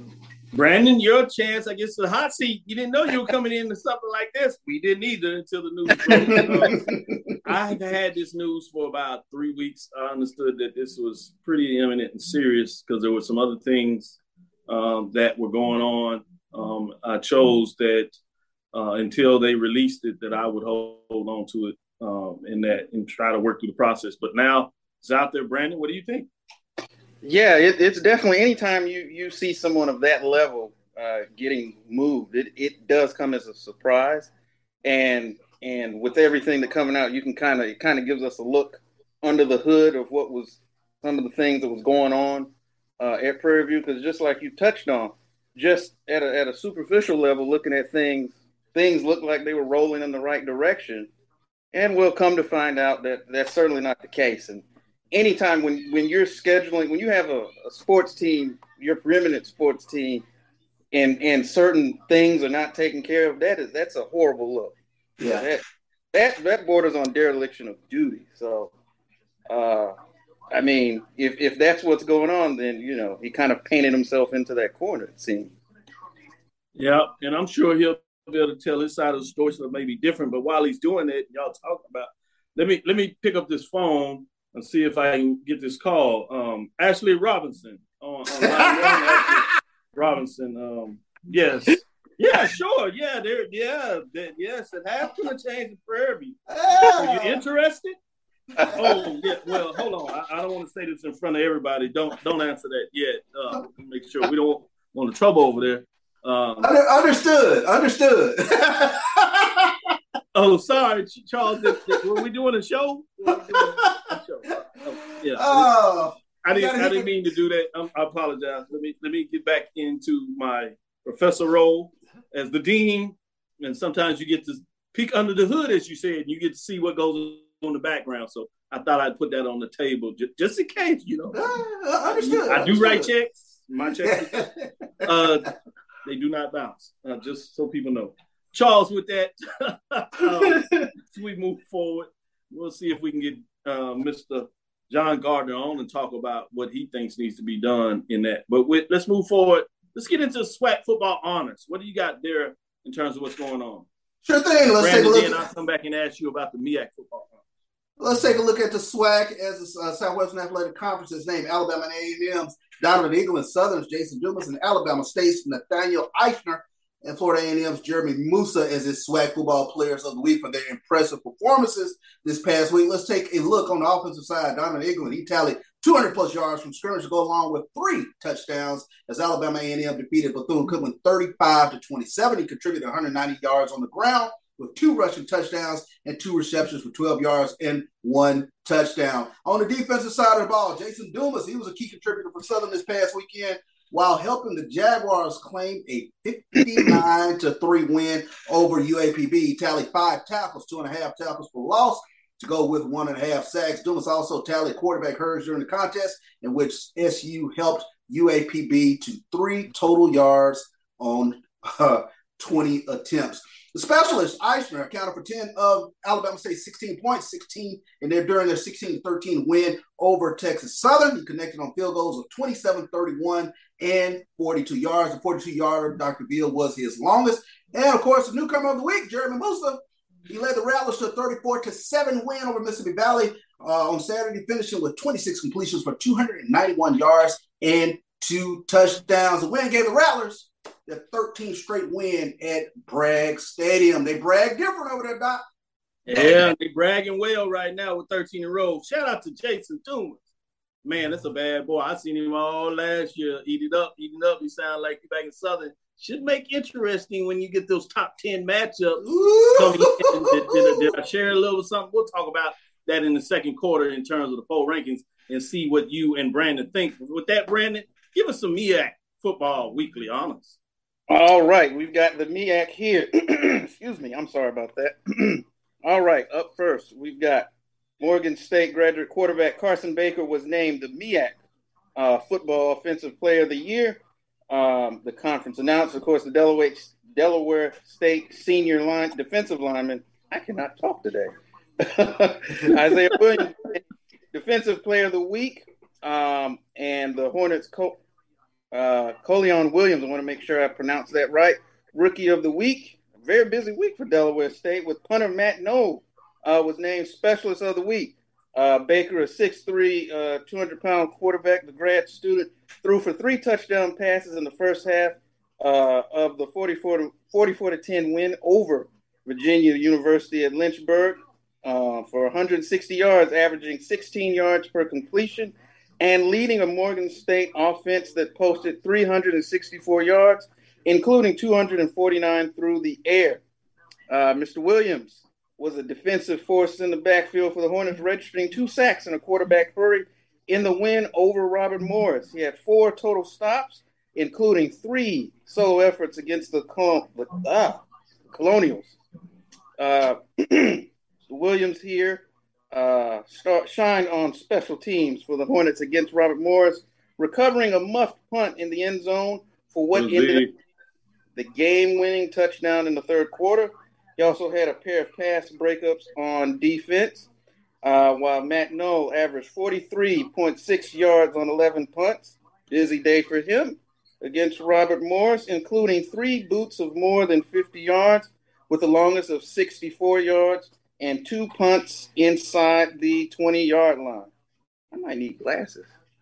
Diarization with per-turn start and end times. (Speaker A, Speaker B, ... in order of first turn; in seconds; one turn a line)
Speaker A: 0.5-6.8
Speaker B: 6.0-7.2
Speaker A: 7.4-18.1
Speaker A: 18.7-26.3
Speaker C: 27.2-34.3
Speaker C: 34.8-51.1
Speaker C: 51.7-60.2
Speaker C: 60.9-68.7
Speaker B: 65.2-65.5
Speaker C: 69.5-69.9
Speaker C: 70.5-75.5
Speaker A: 76.8-97.9
Speaker B: 88.3-89.4
Speaker B: 96.5-97.4
Speaker B: 98.6-99.0
Speaker A: 98.7-106.7
Speaker B: 106.6-109.7
Speaker A: 110.3-115.7
Speaker B: 111.5-112.0
Speaker B: 113.5-113.9
Speaker B: 115.3-117.2
Speaker A: 116.4-131.4
Speaker B: 131.3-133.1
Speaker A: 132.2-134.4
Speaker B: 134.0-135.2
Speaker A: 135.0-135.5
Speaker A: 136.0-153.8
Speaker B: 140.3-140.8
Speaker B: 154.2-155.4
Speaker A: 154.8-157.4
Speaker B: 158.0-245.4
Speaker A: 246.1-250.2
Speaker A: 250.8-259.0
Speaker B: 259.0-260.9
Speaker A: 259.6-270.6
Speaker C: 271.1-277.5
Speaker C: 278.0-281.4
Speaker C: 281.9-284.0
Speaker C: 284.5-293.8
Speaker C: 294.3-298.0
Speaker C: 298.7-333.4
Speaker C: 334.1-348.9
Speaker C: 349.8-360.4
Speaker A: 359.9-360.5
Speaker C: 361.4-367.3
Speaker C: 367.8-384.3
Speaker C: 384.9-385.9